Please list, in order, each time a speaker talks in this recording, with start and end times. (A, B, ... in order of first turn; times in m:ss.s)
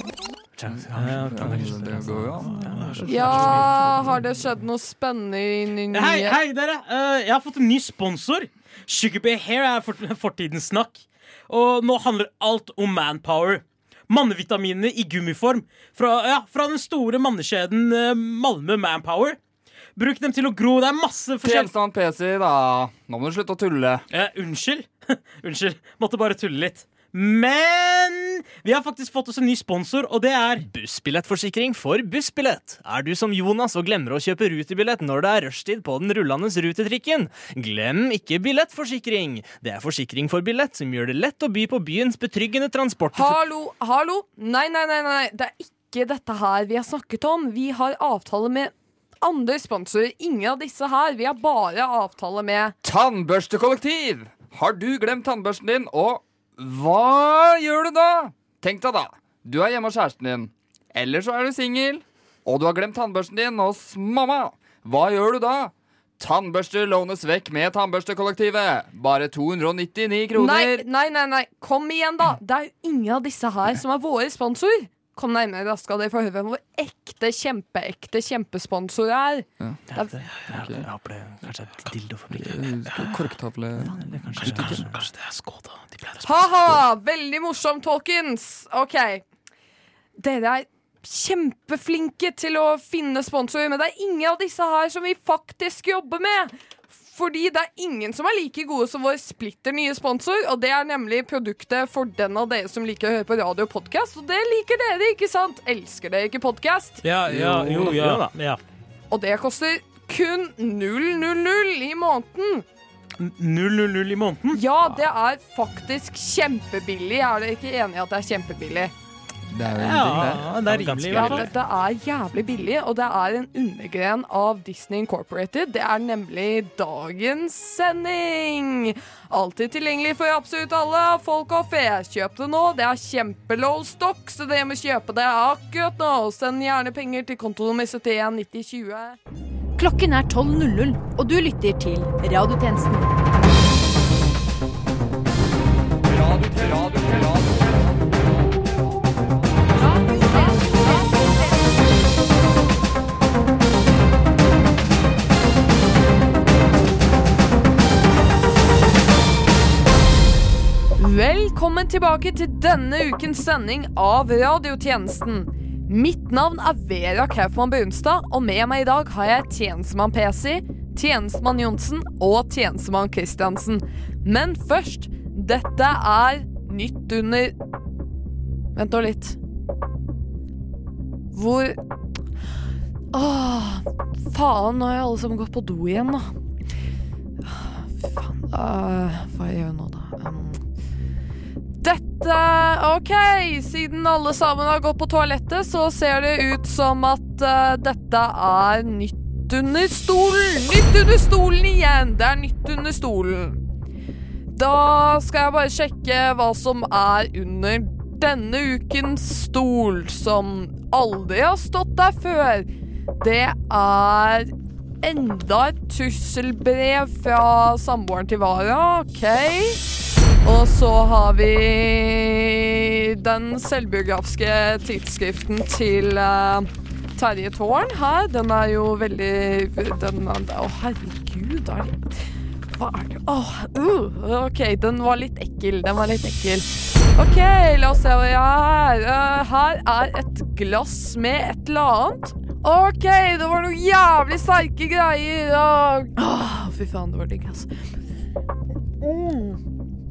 0:00.6-0:03.8 A
0:00.7-0:02.7 B
0:00.9-0:01.4 C
0:02.4-0:03.7 C
0:03.0-0:06.4 D
0:05.9-0:19.4 C
0:20.0-0:21.7 C
0:21.4-0:24.0 B
0:24.1-0:30.6 C
0:30.7-0:43.4 A
0:43.1-0:52.7 D
0:52.8-1:10.8 B
1:10.3-1:20.2 D
1:19.9-1:22.6 A
1:20.5-1:20.8 B
1:22.3-1:24.9 B
1:24.0-1:25.1 A
1:25.0-1:26.3 C
1:26.2-1:29.2 D
1:30.2-1:36.5 D
1:37.0-1:47.0 D
1:47.0-1:48.6 C
1:47.2-1:48.3 A
1:49.1-1:52.6 D
1:53.2-1:54.6 C
1:54.5-1:58.9 D
1:59.5-2:00.5 B
1:59.7-2:01.4 C
2:00.6-2:01.5 A
2:01.1-2:19.2 D
2:19.8-2:23.1 E
2:26.0-2:28.1 B
2:30.1-2:31.1 D
2:41.0-2:57.6 D
2:58.7-2:59.4 D
3:01.3-3:01.8 D
3:03.1-3:06.3 D
3:07.4-3:10.6 D
3:11.8-3:23.6 D
3:24.5-3:34.5 D
3:35.0-3:39.8 D
3:40.4-3:52.1 D
3:52.7-4:07.7 D
4:09.0-4:09.6 D